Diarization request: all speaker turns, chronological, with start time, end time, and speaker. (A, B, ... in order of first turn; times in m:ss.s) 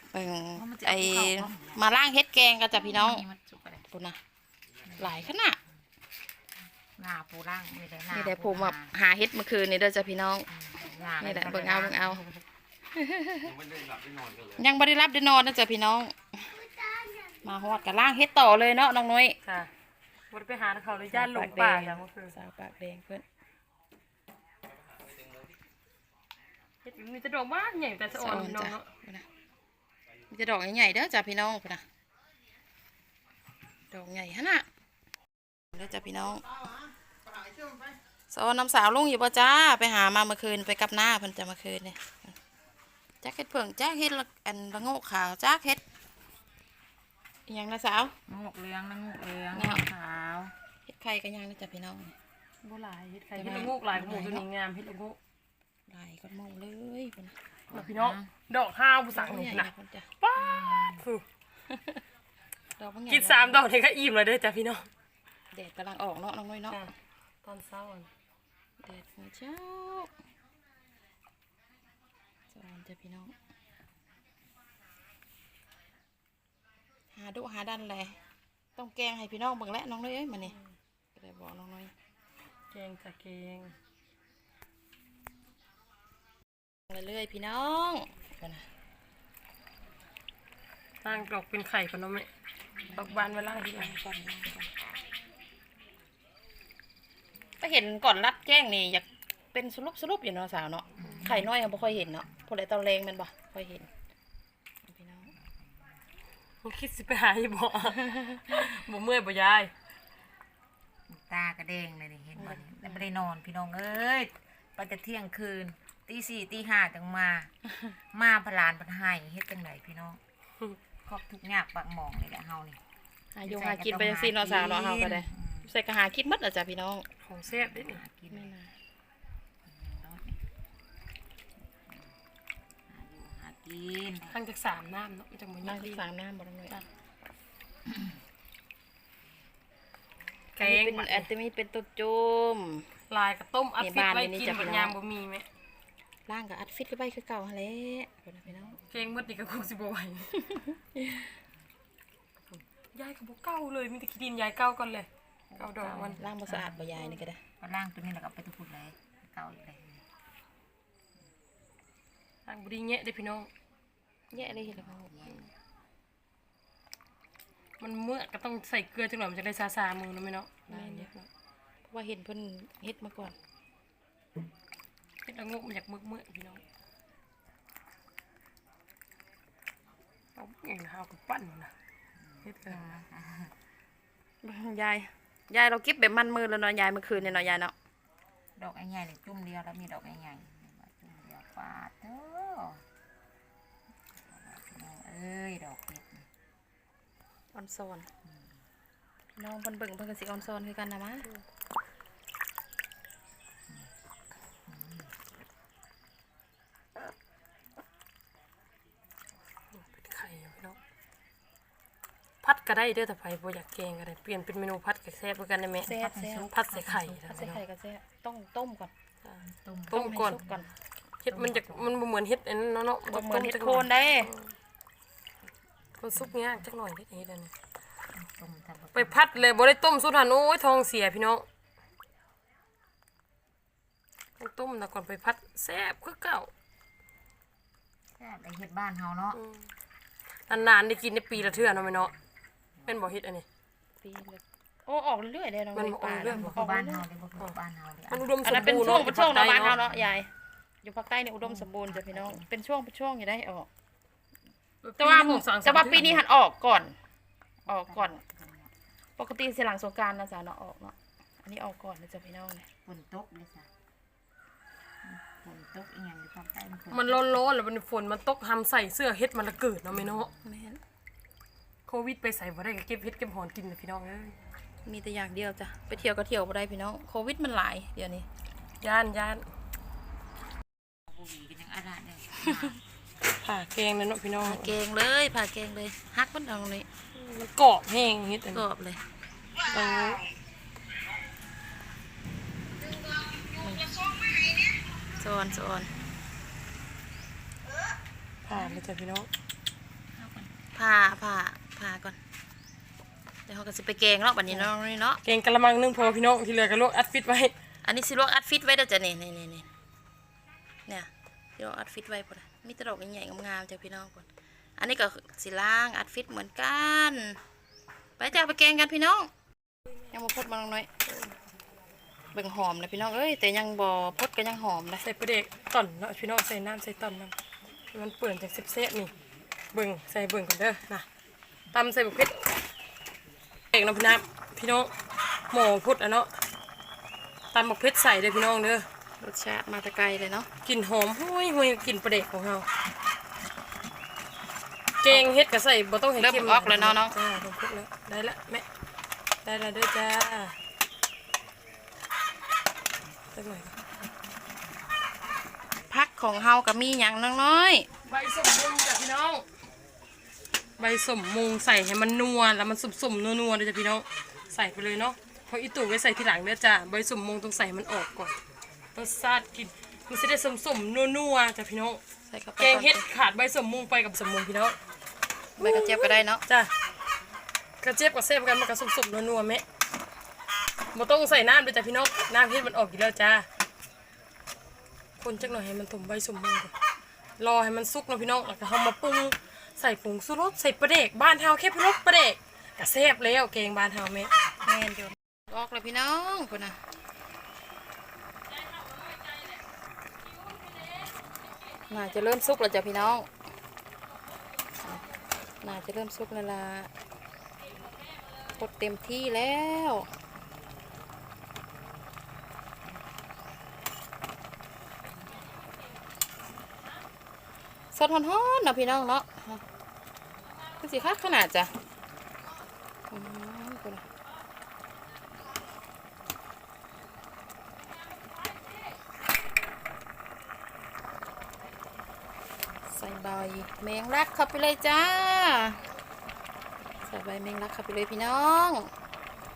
0:00.1-0:03.2 A
0:00.5-0:01.8 B
0:02.7-0:03.8 B
0:03.9-0:04.2 A
0:04.8-0:05.3 B
0:05.0-0:05.6 A
0:07.0-0:08.9 B
0:08.1-0:10.5 A
0:10.5-0:12.2 B
0:11.2-0:12.2 A
0:11.4-0:12.4 C
0:12.9-0:13.6 A
0:14.6-0:16.6 A
0:17.3-0:19.4 A
0:19.4-0:19.7 C
0:20.3-0:22.3 C
0:21.1-0:23.2 A
0:26.8-0:28.9 C
0:28.1-0:29.2 A
0:30.3-0:31.8 A
0:33.9-0:34.7 A
0:35.7-0:36.5 A
0:38.3-0:42.3 A
0:43.2-0:45.8 A
0:47.5-0:48.2 A
0:48.3-0:50.5 B
0:49.5-0:49.8 A
0:50.8-0:52.1 A
0:52.6-0:55.2 C
0:53.3-0:54.3 A
0:53.9-0:54.4 B
0:55.9-0:57.4 A
0:57.7-0:58.3 B
0:57.7-1:01.2 C
0:59.1-1:00.1 A
1:00.3-1:01.1 B
1:01.7-1:02.0 A
1:02.8-1:03.6 A
1:03.1-1:04.9 C
1:05.5-1:06.8 A
1:07.4-1:08.1 C
1:08.8-1:10.1 A
1:12.5-1:13.3 A
1:17.1-1:18.2 A
1:18.8-1:20.6 A
1:21.1-1:21.9 A
1:22.7-1:23.7 C
1:26.9-1:28.7 A
1:31.0-1:32.3 C
1:32.8-1:34.7 B
1:32.9-1:34.0 C
1:37.6-1:43.9 A
1:41.0-1:41.7 B
1:44.8-1:45.3 A
1:46.6-1:49.7 C
1:47.9-1:48.6 A
1:51.1-1:57.5 B
1:52.4-1:53.0 A
1:58.1-2:00.2 B
2:01.0-2:02.8 B
2:03.3-2:07.0 A
2:03.4-2:05.7 B
2:07.2-2:08.0 C
2:07.5-2:08.5 B
2:08.3-2:08.7 A
2:09.6-2:10.4 B
2:12.9-2:14.4 B
2:14.2-2:16.0 C
2:15.6-2:16.8 A
2:20.5-2:21.3 C
2:20.6-2:22.9 A
2:23.1-2:25.4 C
2:23.8-2:25.0 A
2:26.3-2:28.8 A
2:28.9-2:30.4 C
2:30.4-2:31.3 A
2:32.5-2:36.2 C
2:35.5-2:40.0 B
2:36.2-2:37.4 A
2:42.4-2:43.5 C
2:44.3-2:45.5 B
2:44.3-2:45.1 A
2:47.8-2:51.3 C
2:50.7-2:51.1 A
2:51.9-2:53.4 A
2:55.2-2:56.6 C
3:00.4-3:01.7 C
3:02.2-3:03.5 B
3:02.4-3:03.0 C
3:04.4-3:07.7 A
3:08.6-3:12.8 B
3:14.2-3:16.2 B
3:17.5-3:18.1 A
3:19.4-3:21.3 A
3:24.7-3:25.1 B
3:29.7-3:30.8 C
3:32.4-3:35.9 C
3:35.8-3:36.5 A
3:35.8-3:37.6 B
3:36.5-3:37.6 C
3:37.3-3:38.9 A
3:39.2-3:40.4 C
3:39.4-3:40.7 B
3:39.9-3:40.7 A
3:41.2-3:44.4 C
3:41.3-3:42.0 B
3:43.1-3:44.3 A
3:46.0-3:47.5 C
3:48.1-3:49.4 B
3:48.9-3:51.4 C
3:54.4-3:56.5 C
3:58.1-3:59.4 B
3:59.3-3:59.6 C
4:00.5-4:02.1 C
4:01.3-4:02.2 B
4:02.8-4:03.0 B
4:02.8-4:03.4 C
4:04.0-4:07.0 A
4:05.7-4:06.6 C
4:06.1-4:10.2 B
4:08.1-4:09.8 C
4:08.4-4:10.3 A
4:10.8-4:13.7 A
4:11.4-4:12.5 B
4:14.8-4:16.2 C
4:15.0-4:17.0 A
4:17.6-4:18.7 B
4:17.6-4:18.2 A
4:19.2-4:22.7 A
4:22.8-4:23.7 B
4:25.0-4:27.4 B
4:26.9-4:30.3 C
4:30.0-4:30.3 B
4:30.4-4:30.8 A
4:31.9-4:34.4 C
4:34.8-4:38.3 A
4:38.8-4:39.4 C
4:41.1-4:42.8 B
4:42.4-4:42.8 A
4:43.4-4:44.7 C
4:44.4-4:46.9 A
4:47.1-4:48.6 C
4:48.5-4:49.0 A
4:49.7-4:50.3 C
4:53.6-4:54.2 A
4:55.2-4:55.9 A
4:58.4-4:59.3 C
5:00.2-5:00.6 B
5:00.7-5:02.2 A
5:03.5-5:05.2 A
5:05.2-5:07.5 C
5:07.8-5:09.7 A
5:10.8-5:14.3 A
5:14.8-5:17.4 A
5:18.2-5:19.3 A
5:20.1-5:20.9 A
5:22.3-5:25.0 A
5:25.0-5:27.3 C
5:27.9-5:29.1 C
5:29.7-5:31.0 C
5:31.7-5:32.5 C
5:33.7-5:34.9 C
5:35.5-5:36.3 C
5:37.5-5:38.8 C
5:39.2-5:40.5 A
5:40.6-5:42.7 C
5:45.0-5:48.6 C
5:46.2-5:47.1 A
5:49.4-5:50.6 C
5:53.3-5:53.8 C
5:55.9-5:57.9 A
5:58.0-5:59.4 C
6:00.8-6:08.4 C
6:08.9-6:12.0 C
6:12.3-6:13.1 A
6:12.6-6:14.8 C
6:15.6-6:16.4 A
6:15.6-6:16.7 C
6:17.8-6:19.6 C
6:20.9-6:23.4 C
6:25.2-6:26.7 C
6:27.4-6:34.3 C
6:34.6-6:36.8 A
6:41.9-6:43.3 A
6:45.6-6:46.9 A
6:48.5-6:50.1 A
6:57.9-6:59.6 A
7:00.8-7:01.7 A
7:03.1-7:04.0 A
7:12.9-7:15.8 A
7:17.0-7:18.9 A